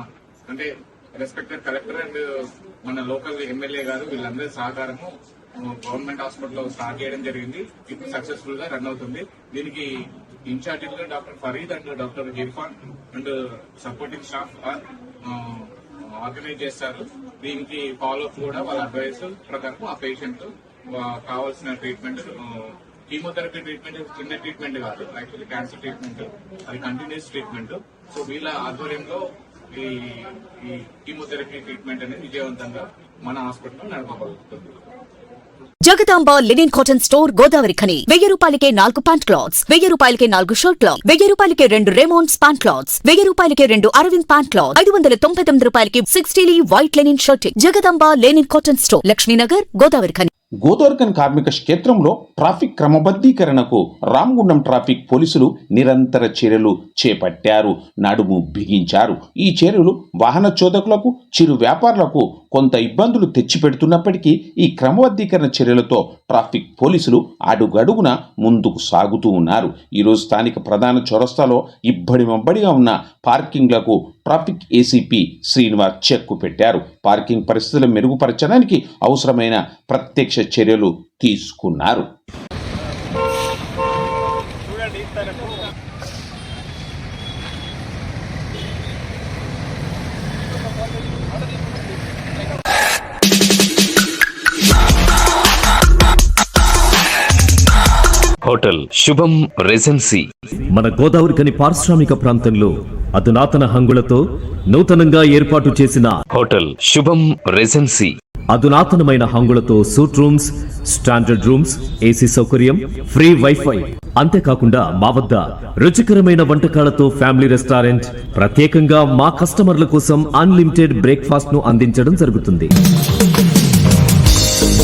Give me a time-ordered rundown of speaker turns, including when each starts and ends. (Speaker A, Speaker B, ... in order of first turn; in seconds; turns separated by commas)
Speaker A: 0.5-34.8, Speaker B: 35.9-50.3, Speaker C: 50.6-82.1, Speaker D: 98.4-100.3, Speaker E: 100.7-106.2, Speaker D: 106.3-108.2, Speaker E: 108.5-122.7